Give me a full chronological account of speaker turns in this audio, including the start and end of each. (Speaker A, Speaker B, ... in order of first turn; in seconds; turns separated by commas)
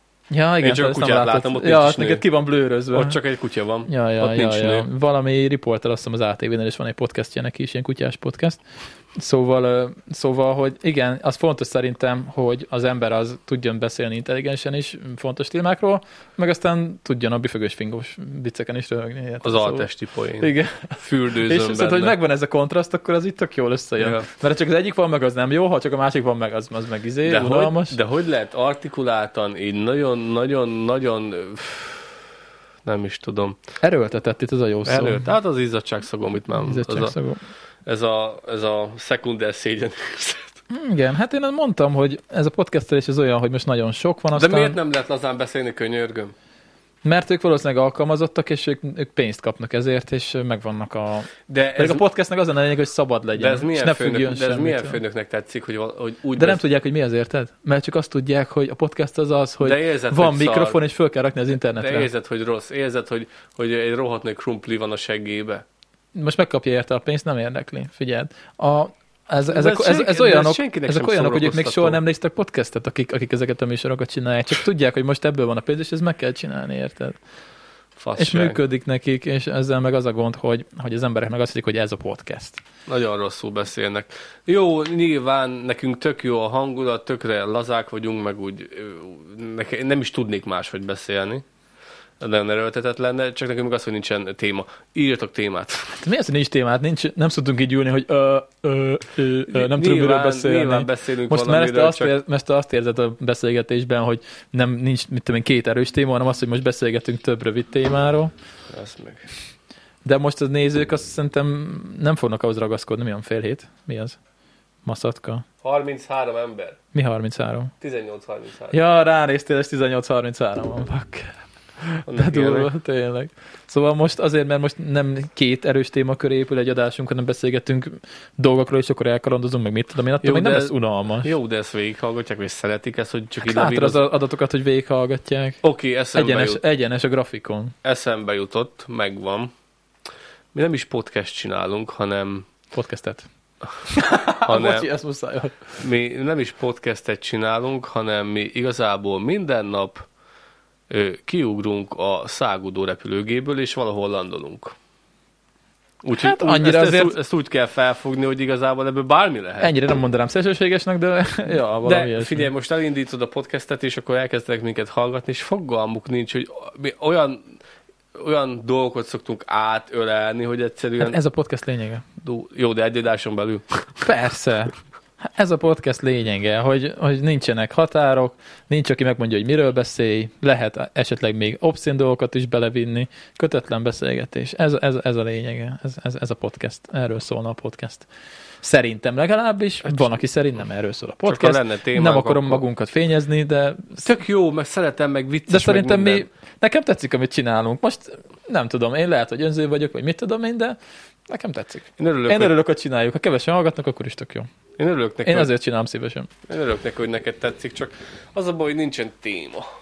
Speaker A: 0.3-3.2, Speaker B: 0.6-2.2, Speaker B: 2.9-4.9, Speaker A: 3.9-8.6, Speaker A: 9.2-28.0, Speaker B: 19.4-22.2, Speaker B: 24.0-24.3, Speaker B: 27.3-32.2, Speaker B: 32.9-33.6, Speaker A: 33.8-35.3, Speaker B: 34.9-37.1, Speaker A: 36.6-37.4, Speaker B: 37.9-40.6, Speaker A: 40.7-44.8, Speaker B: 44.4-46.3, Speaker A: 47.0-55.0, Speaker B: 51.5-52.0, Speaker B: 53.4-56.6, Speaker A: 56.4-62.1, Speaker B: 59.6-60.8, Speaker B: 61.8-65.6, Speaker A: 66.2-77.2, Speaker B: 69.5-72.0, Speaker B: 78.0-78.6, Speaker A: 78.2-82.6, Speaker B: 82.9-91.4, Speaker B: 92.2-96.0, Speaker A: 96.0-108.3, Speaker B: 99.5-102.2, Speaker B: 108.7-109.3, Speaker A: 110.0-114.2, Speaker A: 114.8-115.5, Speaker B: 115.6-116.8, Speaker A: 116.9-117.7, Speaker B: 117.8-118.8, Speaker A: 118.7-131.3, Speaker B: 122.1-122.7, Speaker B: 130.2-134.1, Speaker A: 133.4-135.6, Speaker B: 135.6-136.6, Speaker A: 136.1-137.8, Speaker B: 137.8-139.5, Speaker B: 140.5-142.5, Speaker A: 142.7-143.3, Speaker A: 143.9-145.8, Speaker B: 144.4-144.9, Speaker B: 145.8-150.1, Speaker B: 150.9-154.8, Speaker B: 156.0-159.7, Speaker A: 156.1-157.2, Speaker A: 159.6-162.5, Speaker B: 161.8-167.5, Speaker B: 168.1-171.2, Speaker A: 171.0-172.1, Speaker B: 172.2-174.1, Speaker A: 174.0-188.1, Speaker A: 188.6-194.1, Speaker B: 191.3-192.6, Speaker B: 194.0-196.2, Speaker A: 195.5-200.8, Speaker A: 201.3-204.5, Speaker B: 202.0-202.5, Speaker B: 204.8-205.5, Speaker A: 205.2-206.3, Speaker B: 206.5-209.7